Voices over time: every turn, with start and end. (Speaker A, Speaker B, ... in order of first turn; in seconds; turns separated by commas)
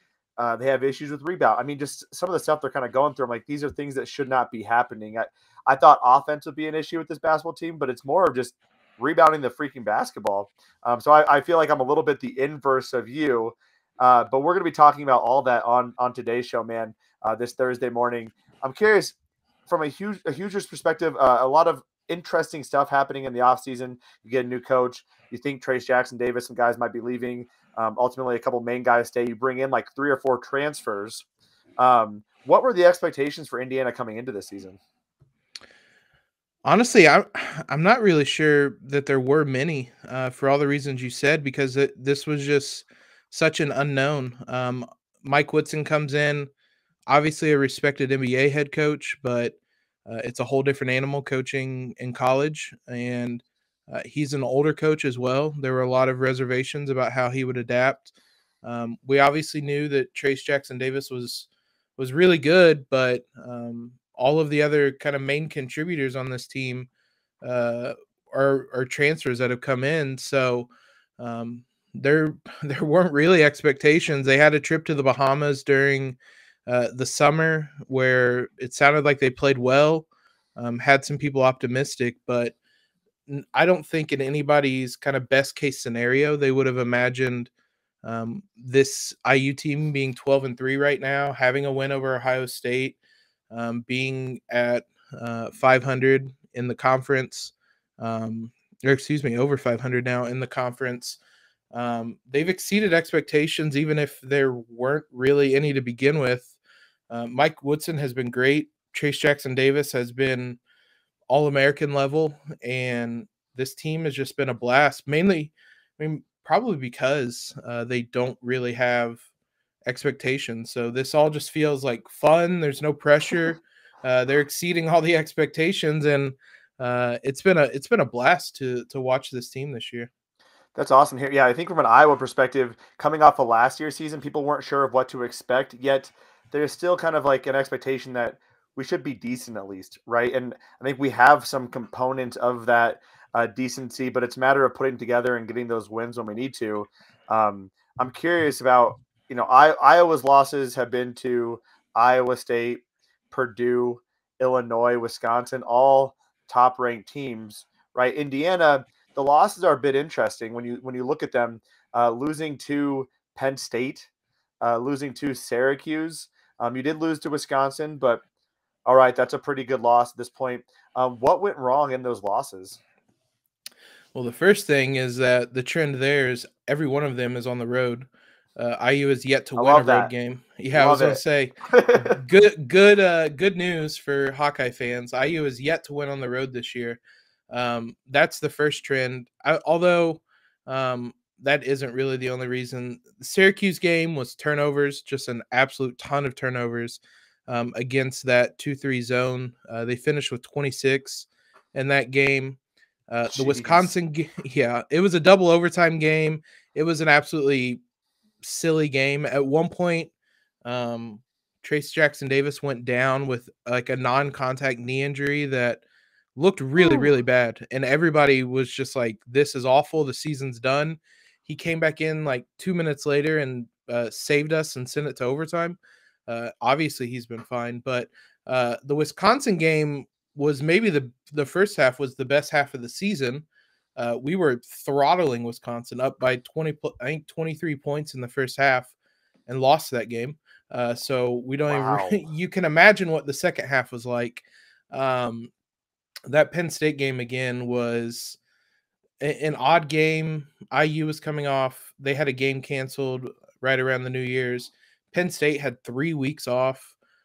Speaker A: 0.4-19.1, Speaker A: 19.7-31.2, Speaker A: 31.8-34.8, Speaker B: 36.6-46.5, Speaker B: 47.1-58.1, Speaker B: 58.6-66.9, Speaker B: 67.4-82.5, Speaker B: 83.3-87.5, Speaker B: 88.0-93.0, Speaker B: 93.5-101.2, Speaker B: 101.7-106.5, Speaker B: 107.1-110.6, Speaker B: 111.3-119.2, Speaker B: 119.9-130.1, Speaker A: 130.8-164.1, Speaker A: 164.6-168.2, Speaker A: 168.9-172.8, Speaker B: 174.1-202.6, Speaker A: 179.6-180.1, Speaker A: 180.7-182.2, Speaker B: 203.1-207.8, Speaker A: 203.3-203.9, Speaker B: 208.4-210.1, Speaker B: 210.7-215.8, Speaker B: 216.4-238.9, Speaker A: 216.8-217.1, Speaker B: 239.5-245.5, Speaker A: 241.7-242.2, Speaker B: 246.3-248.4, Speaker B: 249.2-256.9